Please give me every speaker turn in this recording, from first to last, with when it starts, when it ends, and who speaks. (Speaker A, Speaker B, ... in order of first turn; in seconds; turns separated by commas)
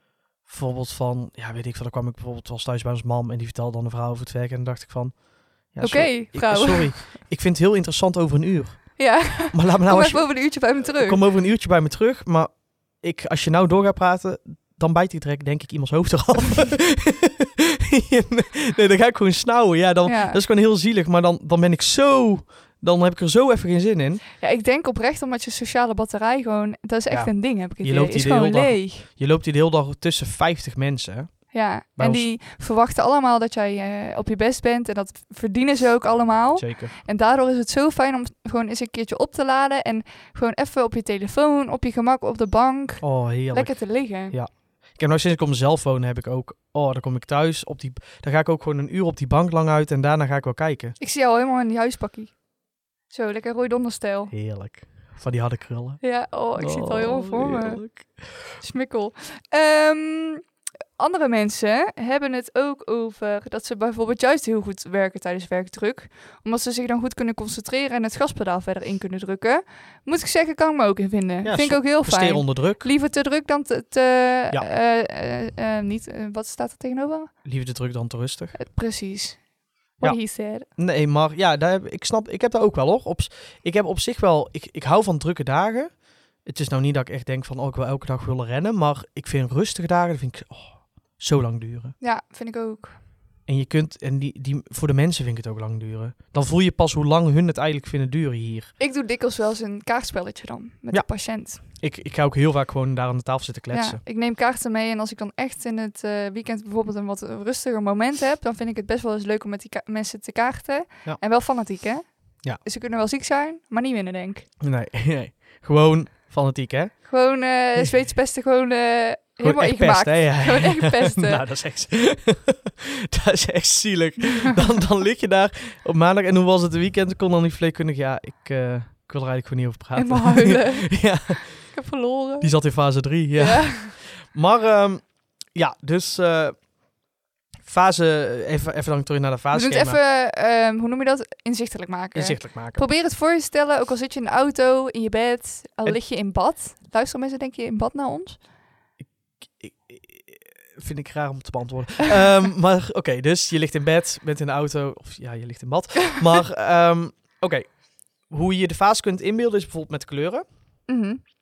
Speaker A: 0.5-5.2, Speaker A: 5.7-24.2, Speaker B: 5.8-7.0, Speaker B: 9.0-11.2, Speaker B: 20.1-20.4, Speaker B: 24.4-29.1, Speaker A: 27.1-31.4, Speaker B: 31.5-44.4, Speaker A: 32.0-32.2, Speaker A: 36.6-37.0, Speaker A: 43.0-51.0, Speaker B: 51.0-52.3, Speaker B: 53.1-54.3, Speaker A: 54.3-56.0, Speaker B: 56.0-58.0, Speaker A: 56.5-58.3, Speaker B: 58.6-60.4, Speaker B: 61.0-77.3, Speaker A: 71.4-72.9, Speaker A: 77.4-78.5, Speaker B: 78.5-79.4, Speaker B: 80.0-80.7, Speaker A: 80.7-85.9, Speaker A: 86.4-91.9, Speaker B: 92.0-93.0, Speaker A: 93.5-98.7, Speaker B: 98.8-101.6, Speaker A: 101.6-104.0, Speaker B: 103.7-112.0, Speaker B: 112.6-114.5, Speaker A: 114.6-117.1, Speaker B: 117.0-121.4, Speaker A: 119.4-131.5, Speaker B: 129.9-132.5, Speaker A: 132.4-136.6, Speaker B: 133.4-133.9, Speaker A: 137.6-140.0, Speaker B: 139.5-148.4, Speaker A: 142.1-142.8, Speaker A: 149.5-157.7, Speaker A: 158.3-160.4, Speaker B: 160.9-161.2